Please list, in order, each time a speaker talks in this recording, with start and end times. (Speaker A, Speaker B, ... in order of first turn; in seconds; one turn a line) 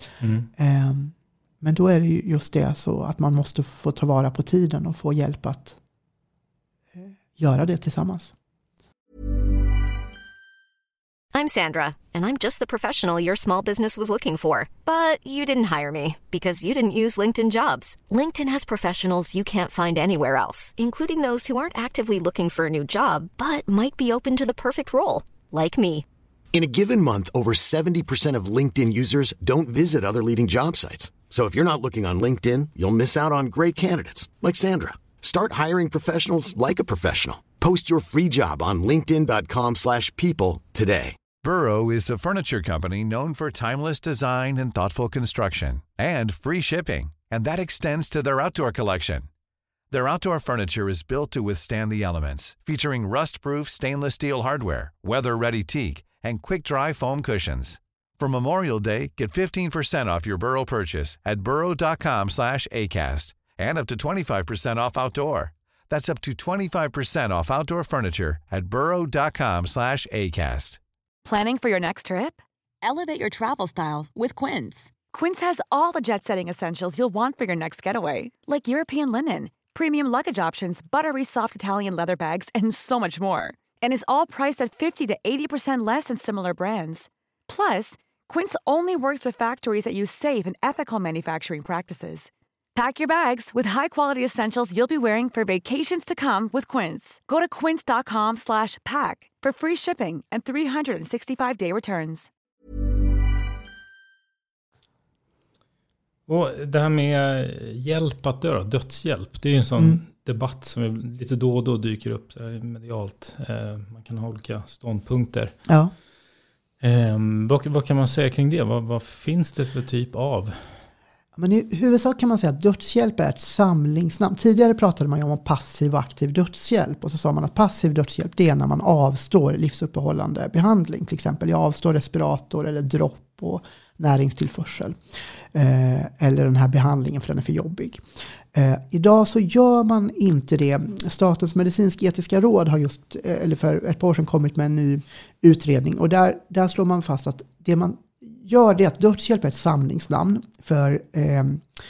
Speaker A: 0.2-0.5
Speaker B: 0.6-5.8
Speaker B: 7.0-8.3
Speaker C: 11.3-26.0
Speaker D: 26.5-41.2
Speaker E: 41.4-49.3
Speaker E: 49.9-70.8
Speaker F: 71.2-102.3
Speaker A: 106.3-115.5
Speaker B: 115.7-115.9
Speaker A: 116.8-120.6
Speaker B: 121.4-134.9
Speaker B: 135.5-138.0
Speaker B: 138.5-151.6